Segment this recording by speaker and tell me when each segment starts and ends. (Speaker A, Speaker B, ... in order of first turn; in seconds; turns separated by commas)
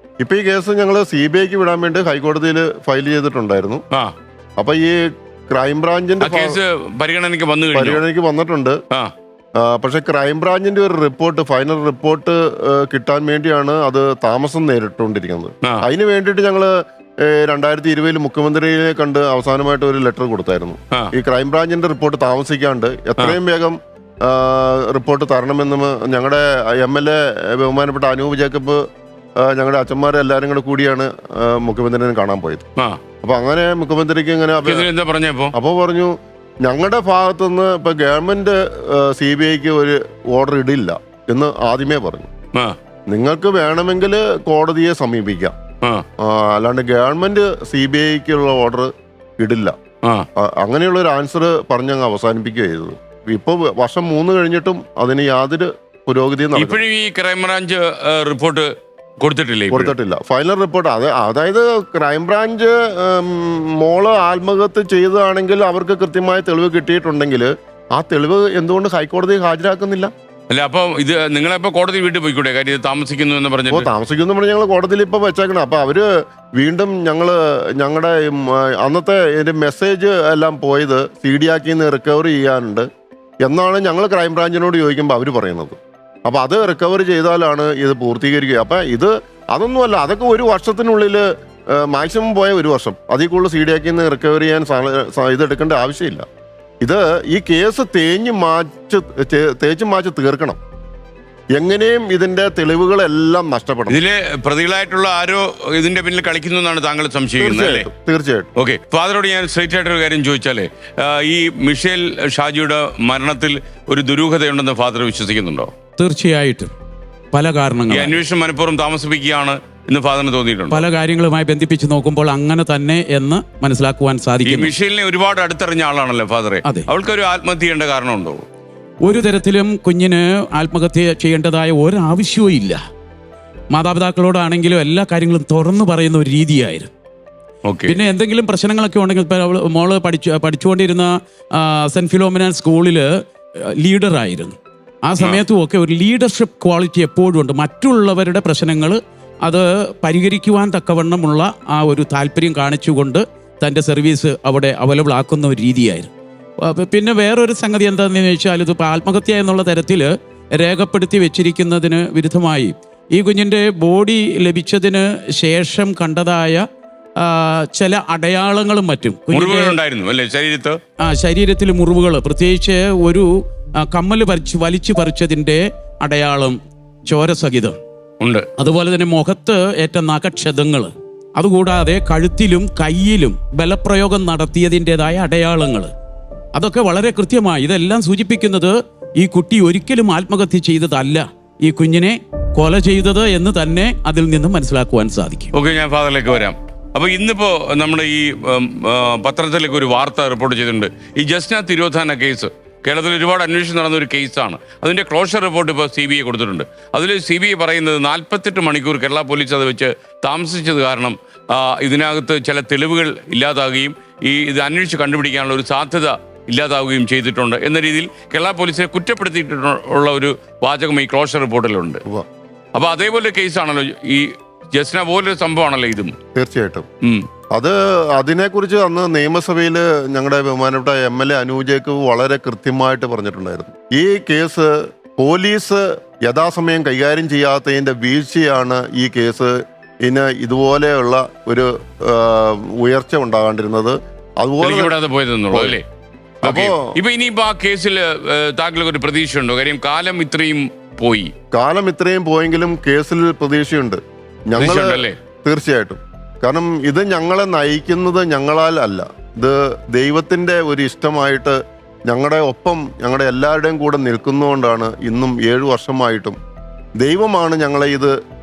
Speaker A: 0.2-3.8, Speaker A: 4.6-6.6, Speaker B: 6.2-8.0, Speaker A: 7.7-8.8, Speaker A: 9.6-28.8, Speaker A: 29.4-32.6, Speaker A: 33.2-34.9, Speaker B: 34.6-35.5, Speaker A: 35.5-42.3, Speaker A: 43.1-45.5, Speaker A: 46.2-49.7, Speaker A: 50.4-56.8, Speaker B: 56.5-59.9, Speaker A: 59.7-70.1, Speaker B: 70.5-73.9, Speaker A: 73.7-82.9, Speaker A: 83.4-96.2, Speaker A: 96.8-100.6, Speaker A: 101.5-104.0, Speaker B: 103.9-107.9, Speaker A: 107.4-108.5, Speaker B: 108.6-115.7, Speaker C: 116.0-116.7, Speaker C: 117.3-118.2, Speaker B: 117.9-120.8, Speaker C: 120.7-124.7, Speaker B: 124.5-128.4, Speaker C: 129.0-132.8, Speaker C: 133.7-136.9, Speaker B: 137.6-138.0, Speaker C: 137.9-143.1, Speaker C: 143.7-144.5, Speaker C: 145.0-156.1, Speaker C: 156.6-166.6, Speaker C: 167.2-169.8, Speaker B: 169.3-170.8, Speaker C: 171.0-173.3, Speaker C: 173.8-177.8, Speaker B: 178.2-178.5, Speaker C: 178.6-185.9, Speaker C: 186.6-195.5, Speaker B: 195.5-222.0, Speaker B: 222.7-226.1, Speaker A: 226.3-226.8, Speaker A: 227.5-244.9, Speaker B: 244.6-245.8, Speaker A: 245.5-245.8, Speaker A: 246.4-246.9, Speaker B: 246.4-251.3, Speaker A: 251.5-266.4, Speaker B: 254.6-255.2, Speaker A: 267.0-268.1